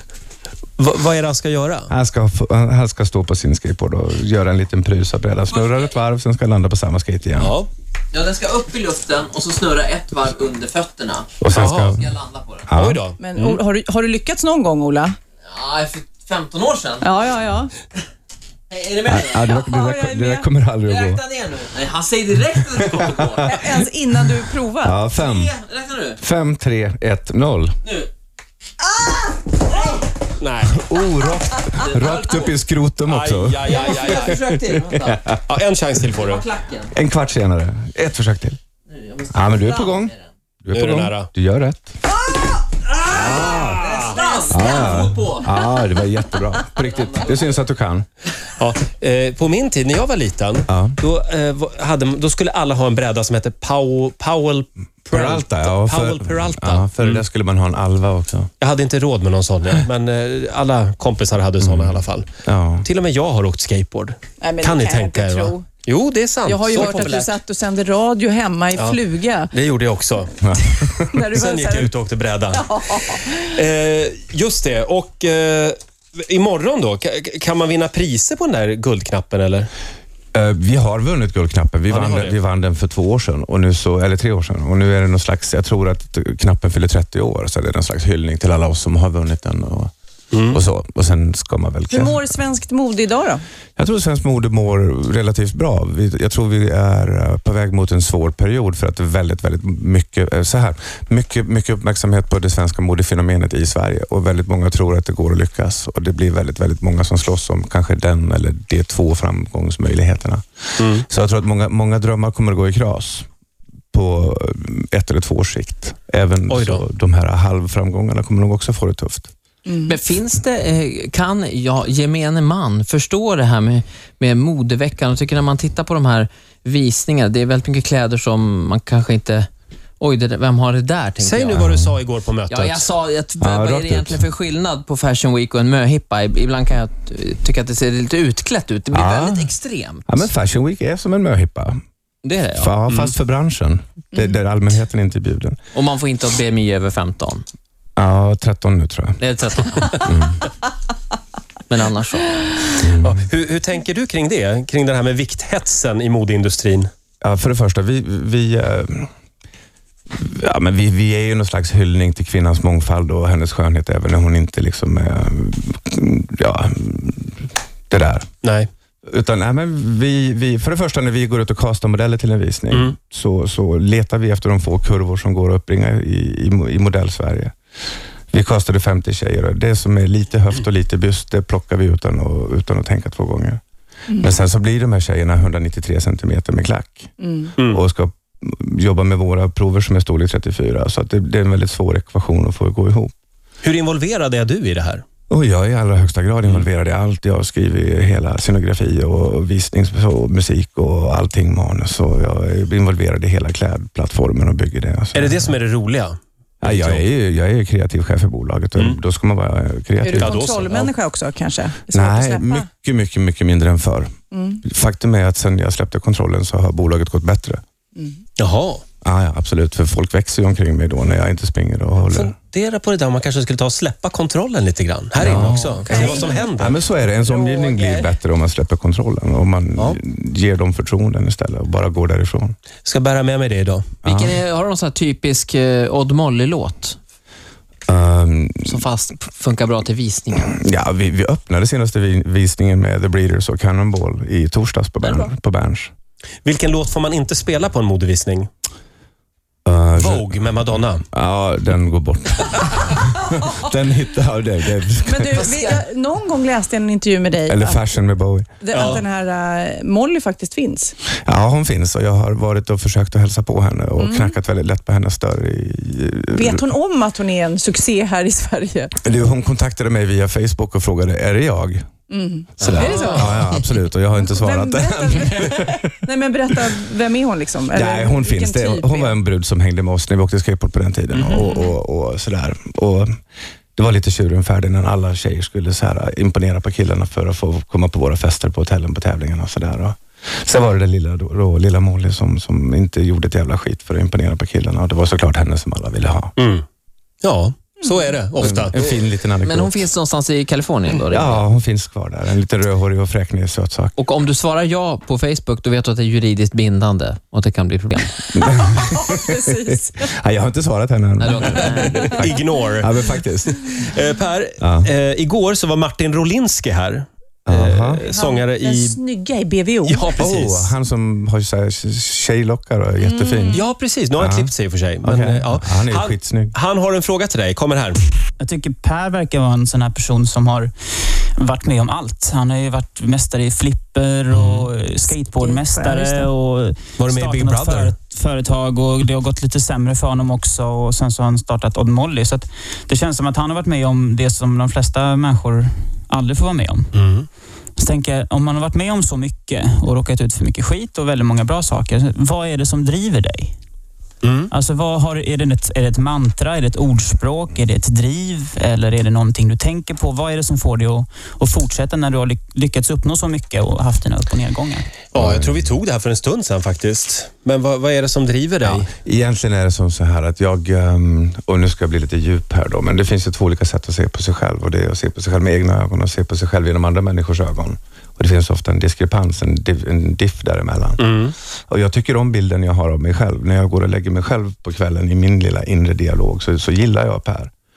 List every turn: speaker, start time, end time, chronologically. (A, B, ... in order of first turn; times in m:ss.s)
0:00.8-0:01.9 A
0:01.9-0:07.6 B
0:05.5-0:05.9 C
0:07.4-0:07.7 A
0:08.1-0:12.7 C
0:11.4-0:12.1 B
0:11.5-0:12.0 A
0:12.7-0:13.0 B
0:12.7-0:13.6 A
0:13.2-0:15.2 D
0:15.4-0:17.3 C
0:17.0-0:17.7 D
0:18.7-0:19.6 C
0:19.0-0:21.2 B
0:19.5-0:20.5 D
0:20.8-0:23.6 C
0:22.5-0:23.7 B
0:23.4-0:25.0 D
0:24.8-0:25.5 B
0:25.1-0:26.2 C
0:26.2-0:27.8 B
0:30.4-0:30.9 A
0:30.7-0:35.4 B
0:31.7-0:32.5 C
0:33.0-0:34.4 A
0:33.6-0:35.3 C
0:35.5-0:36.4 A
0:36.1-0:36.9 C
0:36.9-0:38.6 B
0:38.9-0:40.2 C
0:39.3-0:42.0 B
0:40.7-0:41.3 A
0:43.1-0:44.2 A
0:43.1-0:43.9 B
0:43.2-0:45.8 C
0:44.5-0:48.0 B
0:46.6-0:47.5 C
0:48.6-0:57.2 A
0:50.7-0:51.0 B
0:55.1-0:58.5 B
0:58.6-1:02.3 A
1:01.6-1:02.9 B
1:02.8-1:07.2 A
1:04.4-1:05.6 D
1:06.4-1:09.5 D
1:06.7-1:07.3 C
1:08.7-1:09.0 A
1:09.5-1:10.4 A
1:10.4-1:11.2 B
1:10.6-1:11.9 D
1:11.3-1:19.7 A
1:12.5-1:13.5 D
1:20.3-1:29.9 B
1:21.9-1:22.4 A
1:30.3-1:30.6 A
1:30.5-1:32.2 B
1:31.9-1:33.4 D
1:33.8-1:53.3 B
1:50.8-1:51.0 A
1:53.9-1:59.3 B
1:56.5-1:56.8 A
1:59.7-1:59.9 D
1:59.8-2:09.5 C
2:10.0-2:11.8 C
2:11.2-2:12.9 A
2:11.5-2:11.9 B
2:12.5-2:20.1 C
2:13.4-2:14.2 B
2:18.9-2:19.5 B
2:20.1-2:21.8 B
2:22.2-2:23.1 C
2:22.5-2:25.6 B
2:25.7-2:27.4 C
2:28.0-2:29.2 B
2:29.2-2:30.1 C
2:30.0-2:30.4 B
2:31.7-2:32.6 C
2:32.8-2:33.2 B
2:33.0-2:36.9 A
2:37.2-2:39.1 B
2:40.1-2:48.3 B
2:48.4-2:48.7 A
2:49.1-2:57.5 B
2:52.7-2:53.0 A
2:58.3-3:03.6 B
3:04.2-3:13.1 B
3:07.2-3:07.5 D
3:13.6-3:15.0 A
3:15.3-3:25.5 B
3:25.1-3:27.0 A
3:26.6-3:30.4 B
3:30.0-3:32.6 D
3:30.2-3:30.9 A
3:31.9-3:37.6 B
3:34.3-3:34.6 D
3:38.4-3:38.8 A
3:39.0-3:42.3 B
3:42.1-3:46.8 A
3:45.2-3:52.5 B
3:45.3-3:48.1 D
3:52.8-3:53.9 A
3:54.0-3:54.4 B
3:54.0-3:57.0 C
3:57.9-3:58.8 B
3:58.6-4:00.5 C
4:00.4-4:05.9 B
4:05.0-4:05.3 C
4:06.4-4:08.5 A
4:09.6-4:10.3 B
4:10.0-4:11.0 A
4:11.1-4:15.7 B
4:15.0-4:17.8 D
4:17.5-4:18.9 B
4:18.6-4:20.9 D
4:18.7-4:19.0 A
4:21.2-4:26.6 B
4:24.0-4:24.3 D
4:26.3-4:28.9 D
4:29.0-4:31.8 B
4:32.1-4:33.6 D
4:32.6-4:35.9 B
4:32.6-4:33.4 A
4:32.9-4:33.4 C
4:34.1-4:39.2 D
4:37.7-4:43.2 B
4:41.1-4:41.4 A
4:41.3-4:41.7 D
4:43.8-4:56.3 B
4:56.4-4:56.6 A
4:57.2-4:58.8 A
4:58.4-4:59.9 B
4:59.4-5:01.4 C
5:01.0-5:04.0 B
5:04.0-5:08.2 C
5:08.3-5:13.7 B
5:08.7-5:10.1 D
5:11.2-5:12.2 C
5:12.1-5:12.9 A
5:13.4-5:19.0 A
5:14.6-5:14.9 B
5:17.4-5:18.0 B
5:18.0-5:20.2 D
5:19.8-5:20.7 A
5:20.2-5:26.5 B
5:23.0-5:23.6 D
5:23.5-5:28.0 A
5:28.4-5:30.7 E
5:31.4-5:46.9 E
5:34.3-5:34.7 A
5:35.2-5:36.3 D
5:37.0-5:38.0 A
5:46.9-5:47.3 A
5:47.8-5:53.5 E
5:54.2-5:54.5 A
5:54.5-6:04.9 E
6:05.1-6:08.9 A
6:05.1-6:05.7 B
6:08.7-6:21.1 B
6:21.0-6:21.3 A
6:21.7-6:27.5 B